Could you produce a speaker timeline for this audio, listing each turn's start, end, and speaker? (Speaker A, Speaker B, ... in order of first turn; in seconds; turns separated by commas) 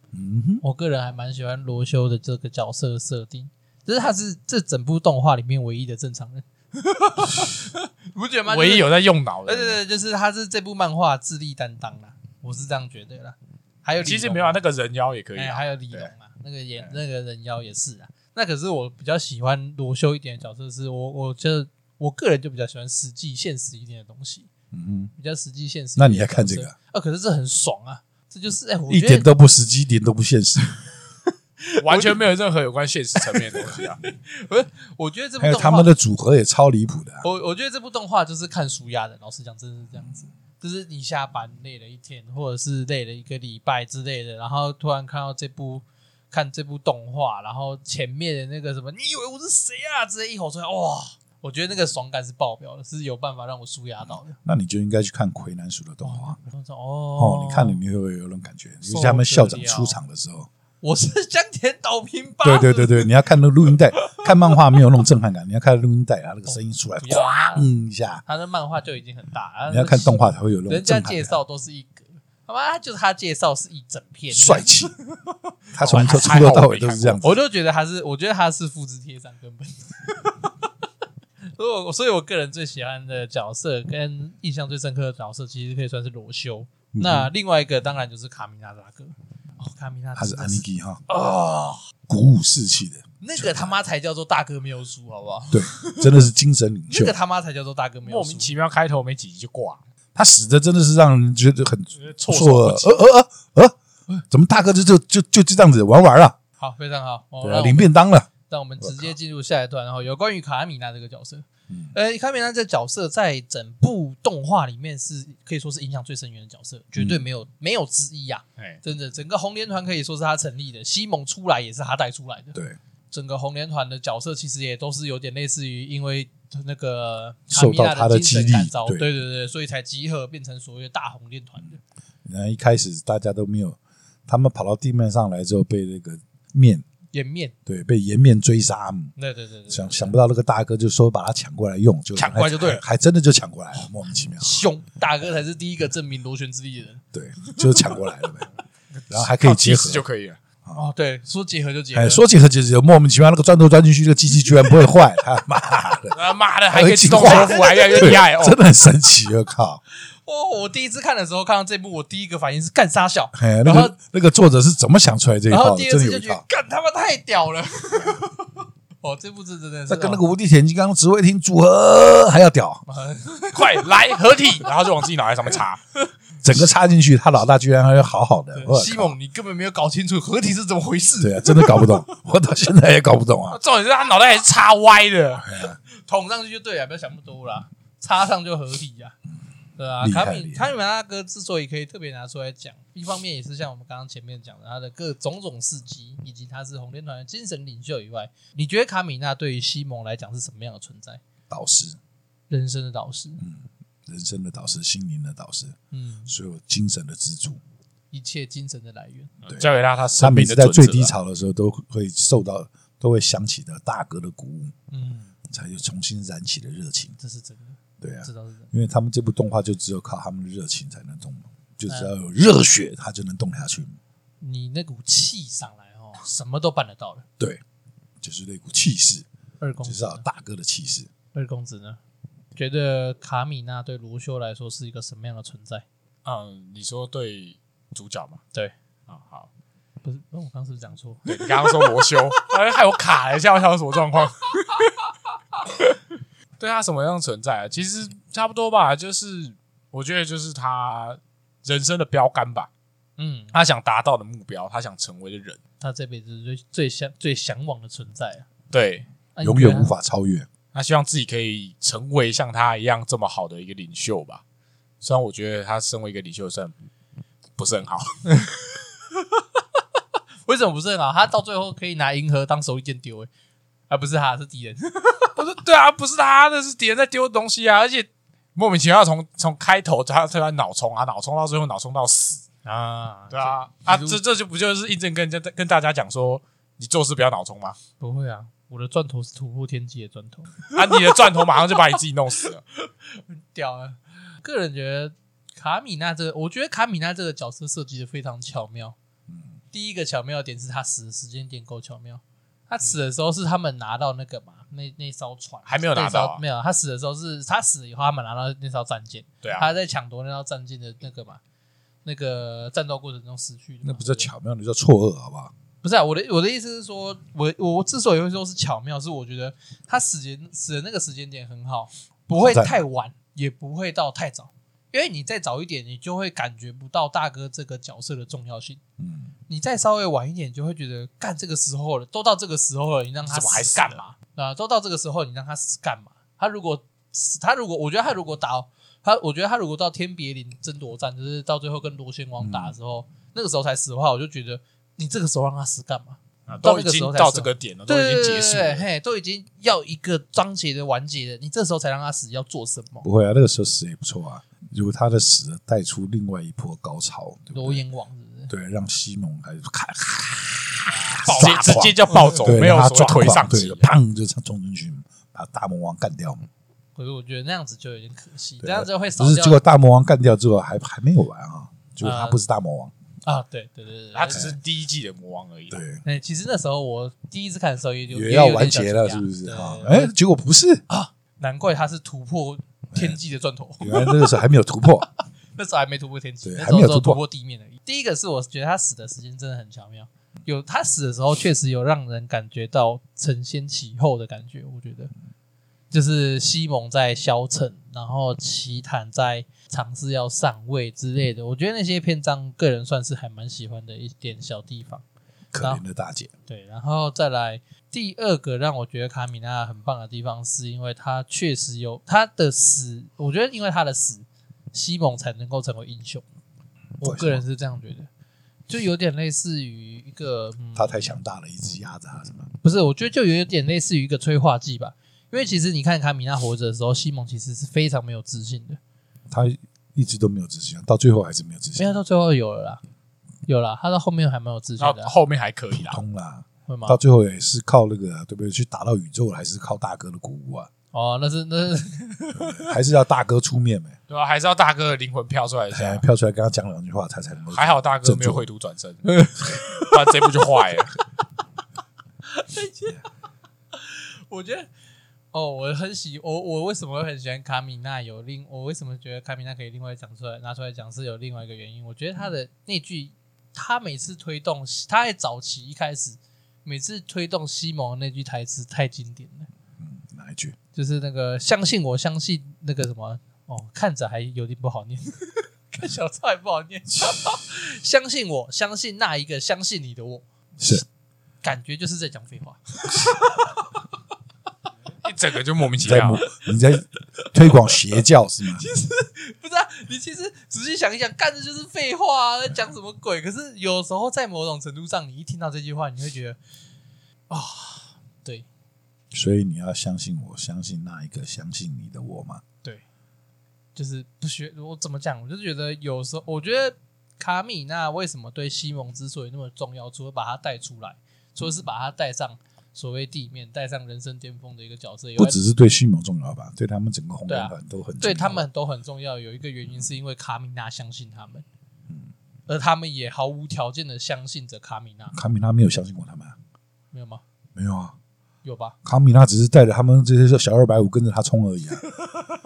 Speaker A: 0.1-0.6, Speaker B: 0.6-8.9, Speaker C: 8.5-9.8, Speaker B: 9.4-14.6, Speaker C: 14.0-16.1, Speaker B: 15.3-24.5, Speaker A: 24.7-25.1, Speaker B: 25.1-29.3, Speaker A: 26.0-26.7, Speaker A: 28.9-30.7, Speaker B: 31.3-32.2, Speaker C: 31.8-34.0, Speaker B: 33.2-35.9, Speaker A: 35.4-37.3, Speaker B: 37.2-54.4, Speaker A: 54.4-56.4, Speaker B: 56.0-57.8, Speaker A: 57.1-60.5, Speaker B: 58.8-60.0, Speaker B: 60.8-63.1, Speaker A: 62.4-68.2, Speaker B: 64.0-64.8, Speaker B: 66.5-67.7, Speaker B: 68.2-76.6, Speaker A: 69.7-71.4, Speaker A: 74.3-74.9, Speaker A: 75.7-77.4, Speaker C: 75.8-77.2, Speaker B: 77.2-80.7, Speaker B: 81.5-91.8, Speaker A: 86.9-87.3, Speaker A: 90.2-91.0, Speaker A: 92.1-93.8, Speaker B: 93.2-96.2, Speaker A: 95.5-97.2, Speaker B: 96.9-98.5, Speaker C: 98.0-99.8, Speaker A: 100.1-103.8, Speaker C: 102.0-103.0, Speaker A: 104.3-106.4, Speaker B: 106.6-107.9, Speaker A: 107.4-108.3, Speaker B: 108.5-122.6, Speaker A: 108.8-109.1, Speaker A: 117.0-117.2, Speaker B: 123.1-131.8, Speaker A: 127.5-129.1, Speaker A: 132.2-136.8, Speaker B: 137.1-137.5, Speaker A: 137.7-139.1, Speaker B: 139.2-140.2, Speaker A: 139.7-144.7, Speaker B: 142.2-142.8, Speaker C: 142.2-142.7, Speaker B: 144.4-147.0, Speaker A: 147.1-148.5, Speaker C: 149.0-150.4, Speaker A: 149.1-150.1, Speaker B: 150.7-152.2, Speaker A: 151.9-159.8, Speaker C: 156.1-158.6, Speaker B: 157.1-158.2, Speaker B: 159.9-163.9, Speaker A: 163.3-166.4, Speaker B: 165.5-170.2, Speaker A: 169.9-172.8, Speaker B: 172.9-174.7, Speaker C: 173.5-175.8, Speaker A: 176.4-179.2, Speaker B: 178.5-182.0, Speaker A: 181.2-183.6, Speaker C: 183.5-185.4, Speaker A: 185.4-185.8, Speaker B: 185.9-189.2, Speaker B: 189.8-201.2, Speaker A: 190.0-190.7, Speaker A: 201.5-202.0, Speaker B: 202.5-203.4, Speaker A: 203.4-207.6, Speaker B: 205.9-206.3, Speaker B: 208.1-209.3, Speaker C: 209.4-211.1, Speaker A: 210.2-214.7, Speaker B: 214.9-215.3, Speaker A: 215.5-217.2, Speaker B: 217.2-218.7, Speaker A: 218.0-224.0, Speaker B: 224.4-227.2, Speaker A: 228.2-229.2, Speaker B: 229.6-230.2, Speaker A: 229.8-231.1, Speaker B: 231.3-232.0, Speaker B: 232.6-235.8, Speaker C: 236.2-238.4, Speaker C: 239.1-239.5, Speaker B: 240.0-242.1, Speaker C: 241.3-244.9, Speaker C: 246.6-252.7, Speaker B: 253.2-253.5, Speaker C: 253.5-255.6, Speaker B: 255.8-258.5, Speaker C: 258.7-259.1, Speaker B: 259.3-259.9, Speaker A: 259.4-260.5, Speaker C: 260.7-264.4, Speaker C: 265.0-266.7, Speaker C: 267.6-268.2, Speaker B: 270.4-273.3, Speaker B: 273.9-275.3, Speaker C: 275.3-282.5, Speaker B: 282.6-284.2, Speaker C: 283.3-287.8, Speaker B: 288.0-291.8, Speaker C: 290.7-292.6, Speaker B: 292.7-298.9, Speaker B: 299.7-311.4, Speaker C: 305.7-306.4, Speaker C: 309.4-309.7, Speaker B: 312.0-314.3, Speaker A: 313.8-315.5, Speaker B: 315.8-328.8, Speaker A: 322.3-322.8, Speaker A: 329.0-329.3, Speaker B: 329.5-353.1, Speaker C: 333.2-334.0, Speaker A: 342.4-342.8, Speaker C: 346.5-348.8, Speaker A: 353.0-357.8, Speaker B: 357.5-358.5, Speaker A: 358.5-366.5, Speaker B: 360.9-362.5, Speaker C: 361.2-363.9, Speaker B: 366.9-369.6, Speaker A: 368.6-372.9, Speaker B: 372.0-372.4, Speaker B: 373.2-374.6, Speaker C: 374.1-375.8, Speaker A: 375.7-376.0, Speaker B: 376.0-380.1, Speaker A: 378.1-380.8, Speaker B: 380.9-384.4, Speaker A: 382.9-383.2, Speaker A: 383.8-385.1, Speaker B: 385.5-395.1, Speaker A: 386.4-387.2, Speaker B: 395.9-405.0, Speaker A: 405.5-406.3, Speaker B: 406.5-416.2, Speaker A: 417.0-417.4, Speaker B: 417.0-418.1, Speaker B: 418.7-421.1, Speaker A: 420.7-422.5, Speaker B: 422.6-428.8, Speaker A: 429.3-431.9, Speaker B: 431.8-432.8, Speaker B: 433.4-435.1, Speaker C: 434.8-436.0, Speaker A: 435.7-440.7, Speaker B: 436.7-437.0, Speaker B: 440.9-442.7, Speaker A: 442.4-443.9, Speaker C: 444.1-446.0, Speaker A: 445.7-448.4, Speaker C: 447.5-451.0, Speaker B: 449.1-450.2, Speaker B: 452.2-453.0, Speaker B: 453.7-454.7, Speaker B: 455.3-469.5, Speaker A: 469.8-470.6, Speaker B: 470.7-480.8, Speaker A: 477.0-477.4, Speaker A: 480.6-480.8, Speaker B: 481.4-483.8, Speaker C: 485.0-486.2, Speaker A: 485.8-488.6, Speaker B: 487.2-487.7, Speaker B: 488.4-496.4, Speaker B: 497.3-498.5, Speaker A: 499.1-502.4, Speaker B: 503.7-515.4, Speaker A: 515.2-518.5, Speaker B: 517.3-521.5, Speaker B: 522.5-525.2, Speaker A: 525.1-526.4, Speaker B: 526.9-527.2, Speaker A: 527.5-528.0, Speaker B: 528.4-528.8, Speaker A: 528.8-531.9